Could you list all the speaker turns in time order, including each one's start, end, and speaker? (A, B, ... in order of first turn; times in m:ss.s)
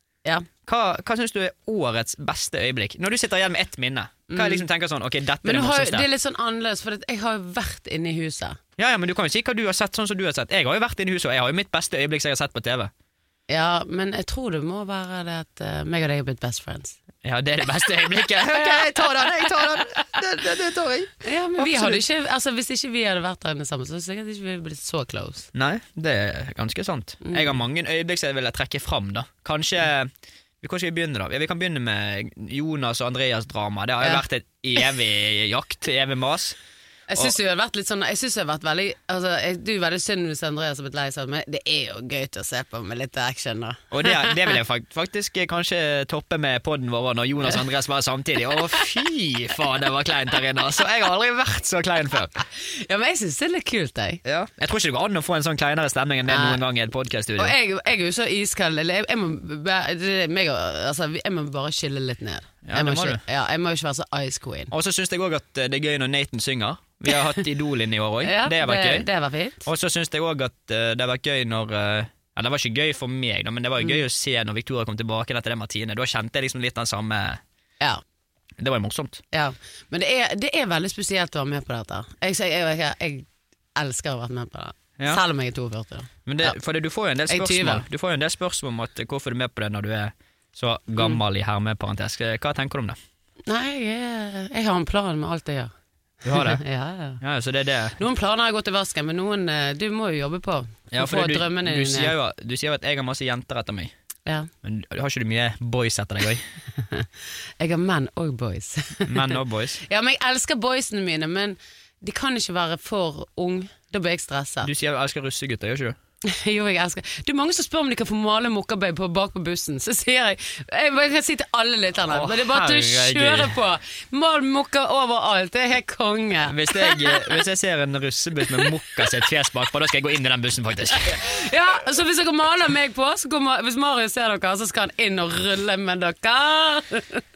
0:00.6-0:06.1 A
0:04.3-0:04.6 B
0:05.4-0:08.6 B
0:08.8-0:12.9 A
0:13.5-0:17.0 B
0:17.2-0:22.0 A
0:21.2-0:25.5 B
0:25.5-0:36.6 A
0:27.2-0:27.5 B
0:37.1-0:44.4 B
0:43.9-0:52.4 A
0:52.6-0:54.2 B
0:54.2-0:57.6 A
0:56.3-0:56.6 B
0:57.4-1:04.7 B
1:02.6-1:03.2 A
1:04.7-1:09.1 A
1:08.2-1:09.7 B
1:09.6-1:17.4 A
1:18.6-1:19.2 A
1:19.3-1:26.5 B
1:26.2-1:33.0 A
1:27.3-1:27.8 B
1:33.5-1:35.7 B
1:36.2-1:36.6 A
1:36.3-1:37.2 B
1:37.2-1:38.0 A
1:38.0-1:42.1 B
1:40.9-1:43.9 A
1:44.6-1:46.4 A
1:46.8-1:47.1 B
1:47.6-1:54.7 B
1:49.1-1:49.8 A
1:54.6-1:56.0 A
1:56.2-2:07.3 B
2:02.1-2:03.6 A
2:06.5-2:11.2 A
2:11.0-2:17.2 B